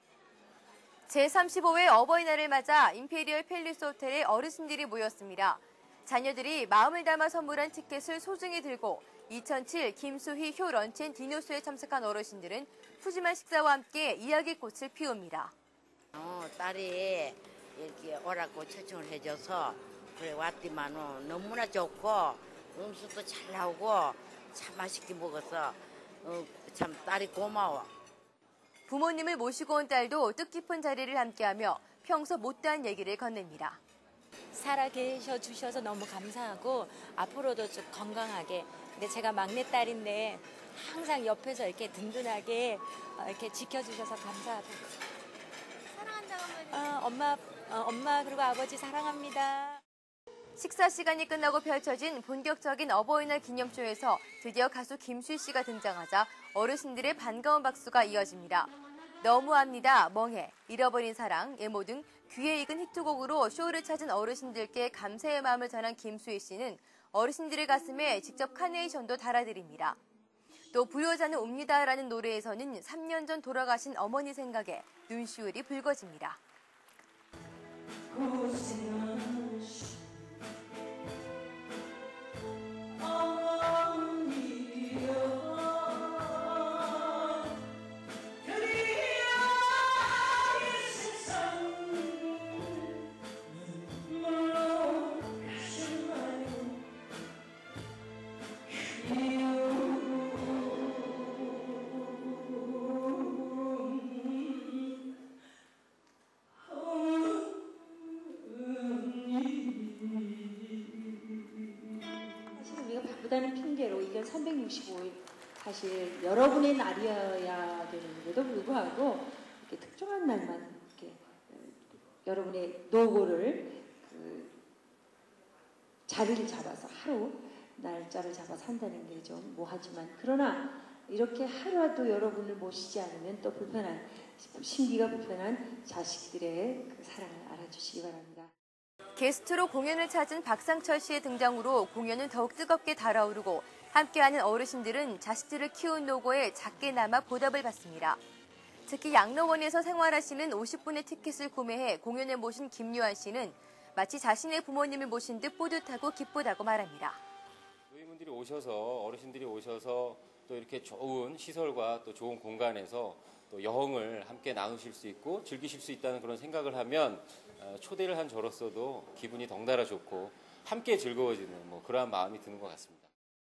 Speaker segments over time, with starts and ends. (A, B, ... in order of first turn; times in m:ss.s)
0:01.1-0:15.5 A
0:16.1-0:27.9 B
0:28.9-0:33.8 A
0:34.5-0:45.0 C
0:45.9-0:49.8 C
0:50.6-0:58.7 A
0:59.2-1:10.0 A
1:10.7-1:16.4 A
1:18.2-1:19.7 C
1:23.1-1:24.1 C
1:28.6-1:29.5 C
1:30.5-1:32.1 C
1:52.5-2:04.5 D
2:06.0-2:18.5 D
2:19.2-2:28.2 A
2:28.9-2:37.2 A
2:37.9-2:53.1 E